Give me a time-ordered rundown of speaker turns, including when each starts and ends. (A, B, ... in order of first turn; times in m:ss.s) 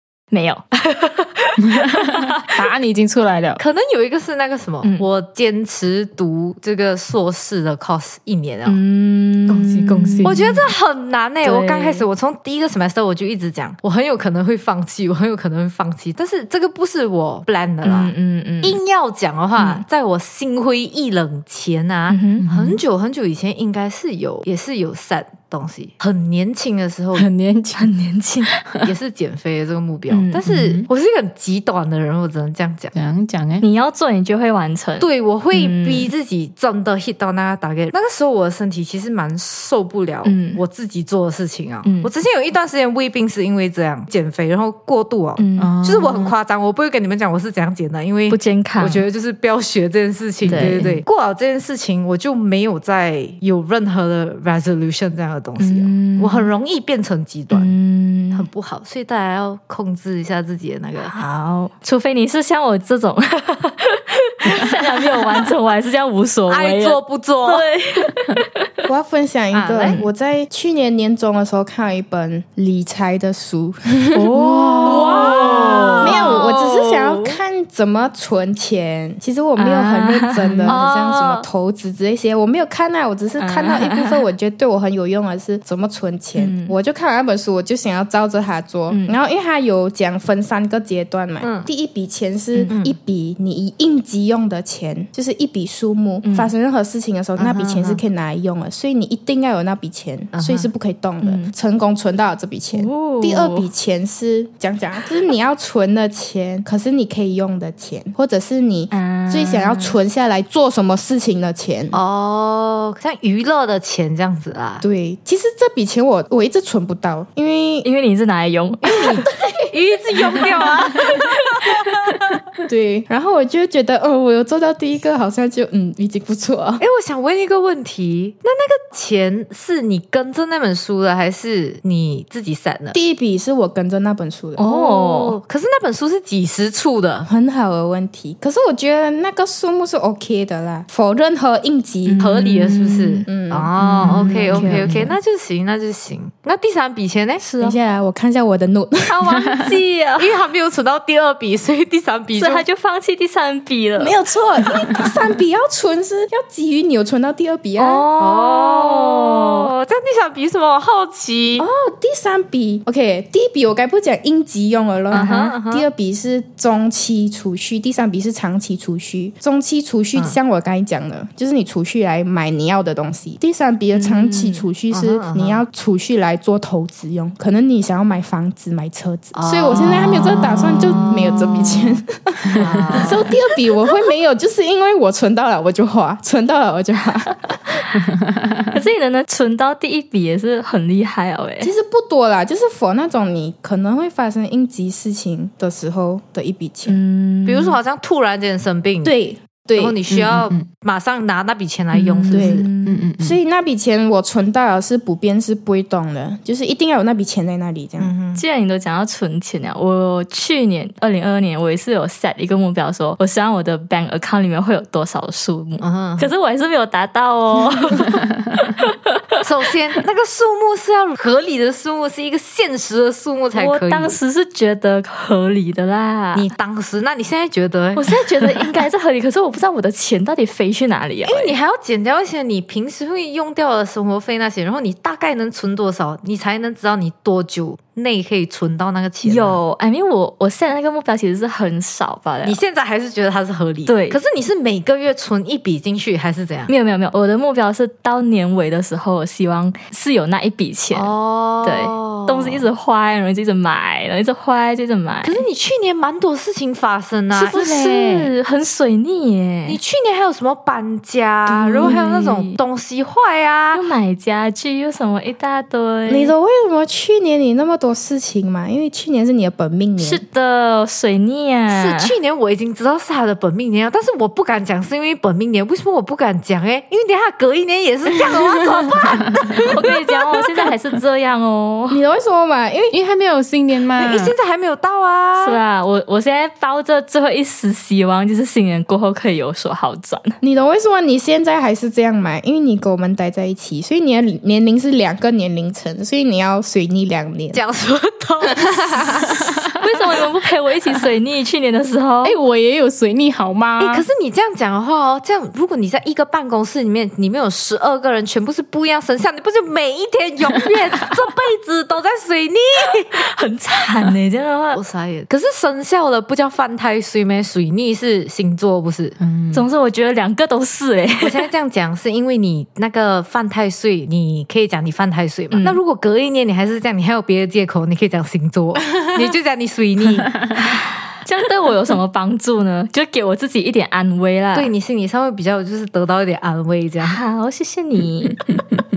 0:00.3-0:02.6 A
0:01.7-0:03.6 B
0:03.6-0:08.8 C
0:08.6-0:10.4 A
0:09.5-0:10.7 B
0:10.2-0:27.3 C
0:11.4-0:12.0 A
0:17.8-0:18.8 A
0:19.6-0:19.8 A
0:22.1-0:22.4 A
0:22.4-0:22.8 B
0:27.1-0:27.9 B
0:27.7-0:28.5 A
0:28.5-0:28.8 B
0:28.8-0:32.9 C
0:30.1-0:30.3 A
0:30.4-0:30.9 B
0:32.9-0:33.6 B
0:33.6-0:36.1 A
0:35.0-0:57.7 C
0:40.2-0:40.6 A
0:41.8-0:42.1 A
0:45.4-0:45.7 A
0:45.6-0:46.3 B
0:48.3-0:49.0 A
0:50.4-0:51.0 B
0:50.5-0:50.9 A
0:55.6-0:56.5 A
0:57.5-0:58.5 A
0:58.3-1:01.1 C
1:01.0-1:08.7 A
1:06.5-1:07.6 C
1:08.9-1:52.0 D
1:09.5-1:10.0 C
1:14.2-1:16.0 B
1:14.2-1:16.7 A
1:14.9-1:17.2 C
1:19.6-1:21.3 A
1:20.4-1:20.8 B
1:23.4-1:24.2 A
1:26.4-1:26.7 A
1:28.9-1:29.2 A
1:31.4-1:31.7 C
1:32.7-1:32.9 C
1:36.2-1:36.5 A
1:37.4-1:38.0 C
1:40.3-1:40.7 C
1:41.2-1:41.5 A
1:42.7-1:43.7 A
1:48.9-1:50.0 A
1:51.9-1:54.8 C
1:54.8-1:57.9 D
1:57.8-1:59.1 A
1:58.8-2:02.4 C
1:58.9-1:59.6 D
2:00.2-2:01.3 A
2:00.2-2:00.6 D
2:02.7-2:06.8 D
2:06.8-2:13.0 C
2:12.9-2:14.6 D
2:14.6-2:15.4 A
2:14.6-2:17.3 C
2:17.2-2:22.2 D
2:22.0-2:23.3 A
2:22.2-2:27.4 C
2:23.2-2:24.5 D
2:23.8-2:25.2 B
2:24.5-2:24.9 A
2:27.4-2:27.8 A
2:27.6-2:29.2 D
2:29.1-2:30.3 A
2:30.2-2:32.6 C
2:32.3-2:34.2 A
2:34.0-2:38.0 D
2:37.8-2:39.7 A
2:38.2-2:41.6 C
2:41.6-3:07.5 D
2:45.1-2:45.9 C
2:45.1-2:45.6 A
2:53.9-2:54.6 A
2:54.9-2:55.6 C
2:59.3-3:01.5 C
3:00.5-3:01.9 A
3:02.5-3:03.3 C
3:02.6-3:02.8 B
3:03.0-3:03.3 A
3:08.3-3:08.7 B
3:08.7-3:11.7 A
3:11.6-3:17.0 D
3:16.8-3:17.8 A
3:17.4-3:19.1 C
3:19.0-3:20.0 D
3:19.8-3:22.6 C
3:20.1-3:20.6 B
3:21.9-3:23.0 A
3:22.3-3:22.7 D
3:22.8-3:23.4 B
3:23.2-3:28.1 D
3:28.0-3:28.4 C
3:28.3-3:38.2 A
3:35.8-3:36.3 C
3:39.4-3:44.2 C
3:43.5-3:46.5 A
3:46.3-3:48.2 C
3:48.0-3:51.5 A
3:51.2-3:59.6 C
3:59.2-4:02.6 A
4:02.4-4:06.7 C
4:03.9-4:04.2 A
4:06.7-4:11.1 A
4:10.9-4:12.6 C
4:11.6-4:15.4 A
4:15.2-4:17.6 C
4:17.3-4:19.8 A
4:17.4-4:18.3 B
4:19.7-4:23.8 C
4:21.5-4:22.6 A
4:23.7-4:26.3 A
4:26.1-4:30.2 D
4:30.0-4:32.1 A
4:31.7-4:40.3 C
4:39.6-4:42.0 A
4:41.9-4:43.0 D
4:42.9-4:44.3 B
4:43.9-4:45.6 C
4:45.4-4:50.4 A
4:50.4-4:57.6 D
4:57.5-4:59.4 C
4:58.4-4:59.4 D
4:59.8-5:02.4 A
5:02.2-5:04.0 B
5:03.8-5:13.2 C
5:13.0-5:14.8 A
5:14.7-5:19.2 C
5:19.2-5:19.6 B
5:19.5-5:21.4 A
5:21.2-5:30.4 C
5:25.5-5:25.8 A
5:30.6-5:34.7 A
5:34.5-5:37.2 C
5:37.0-5:38.4 A